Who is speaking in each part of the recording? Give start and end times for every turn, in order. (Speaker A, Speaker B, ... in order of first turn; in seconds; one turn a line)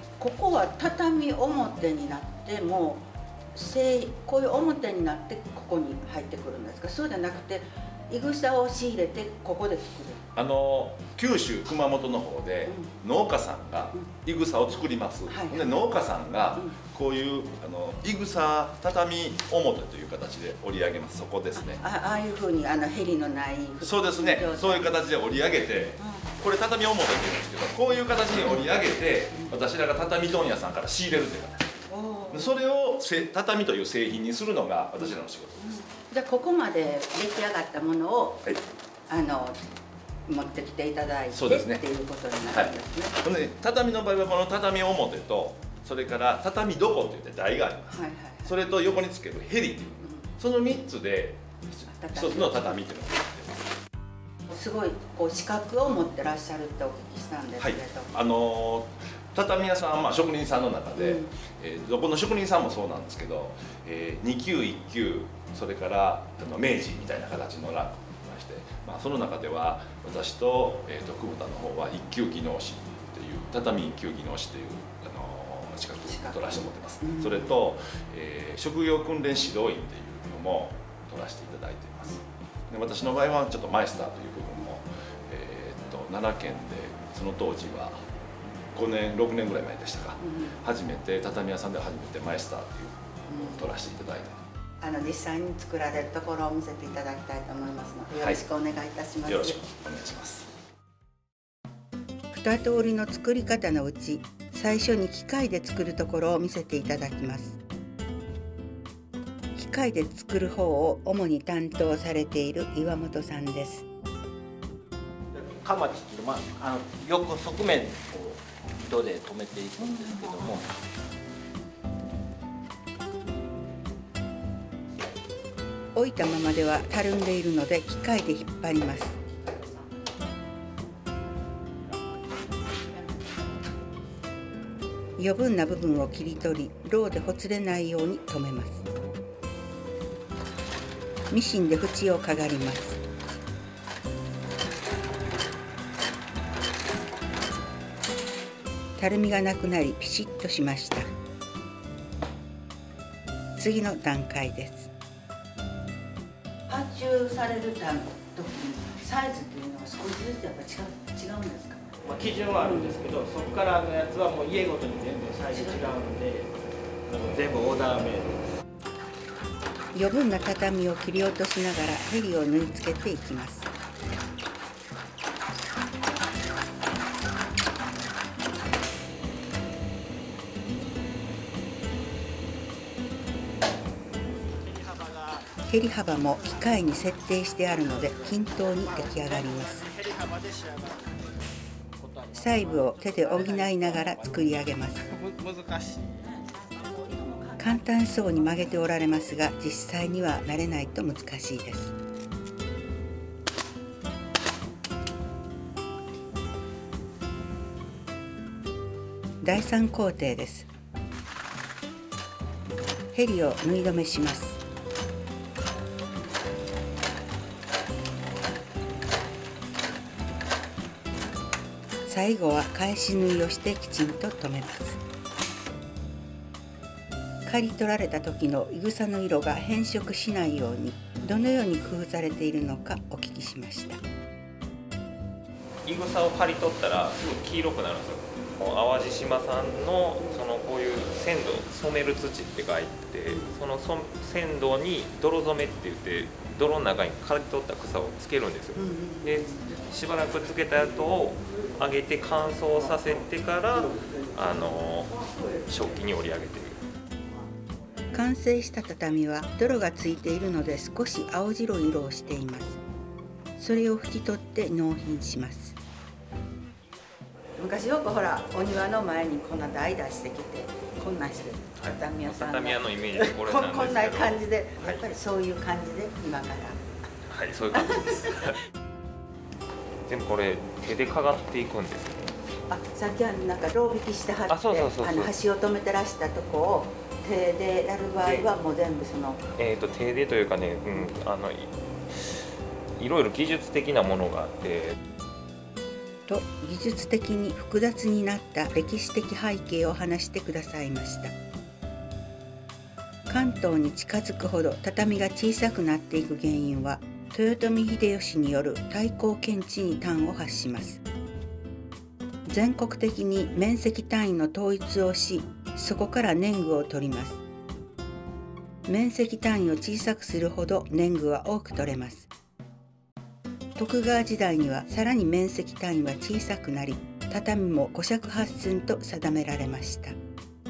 Speaker A: 0.2-10.2
Speaker B: 10.3-21.8
Speaker A: 12.7-12.9
Speaker A: 15.3-15.8
Speaker A: 21.6-25.0
Speaker B: 23.8-31.7
Speaker A: 26.0-26.3
Speaker A: 31.9-32.5
Speaker B: 32.3-35.7
Speaker A: 35.0-38.5
Speaker A: 39.1-39.6
Speaker A: 40.3-43.2
Speaker B: 41.3-41.8
Speaker B: 42.5-53.6
Speaker A: 47.9-48.6
Speaker A: 50.0-50.3
Speaker A: 51.9-52.8
Speaker A: 54.5-58.1
Speaker B: 57.6-88.0
Speaker A: 61.0-61.3
Speaker A: 76.0-77.5
Speaker B: 88.7-94.4
Speaker A: 90.2-90.6
Speaker A: 93.3-93.7
Speaker A: 94.8-99.6
Speaker B: 99.3-100.5
Speaker A: 102.3-107.6
Speaker A: 109.5-113.8
Speaker C: 115.3-120.7
Speaker A: 119.8-120.6
Speaker A: 125.9-129.2
Speaker A: 135.2-138.8
Speaker A: 141.3-143.0
Speaker A: 149.0-151.1
Speaker A: 153.6-154.9
Speaker A: 156.7-162.0
Speaker C: 162.0-166.5
Speaker A: 162.6-163.0
Speaker A: 165.5-165.8
Speaker C: 167.1-168.4
Speaker A: 169.9-173.7
Speaker A: 185.7-189.9
Speaker C: 187.9-191.1
Speaker C: 192.0-194.2
Speaker A: 192.3-195.1
Speaker C: 195.1-197.1
Speaker A: 197.5-201.9
Speaker A: 209.4-210.7
Speaker A: 213.1-214.6
Speaker A: 222.1-225.0
Speaker A: 227.4-234.0
Speaker D: 235.8-255.1
Speaker A: 248.8-249.8
Speaker D: 255.7-256.8
Speaker A: 258.1-262.8
Speaker A: 263.6-265.8
Speaker A: 267.6-276.8
Speaker D: 271.8-275.0
Speaker D: 277.3-278.6
Speaker A: 277.7-278.4
Speaker D: 280.1-282.3
Speaker A: 282.7-289.4
Speaker D: 284.5-285.3
Speaker D: 288.2-288.5
Speaker D: 289.6-292.4
Speaker D: 293.0-294.9
Speaker A: 296.3-301.3
Speaker A: 303.3-311.0
Speaker A: 312.5-317.4
Speaker A: 318.9-322.3
Speaker A: 323.8-330.2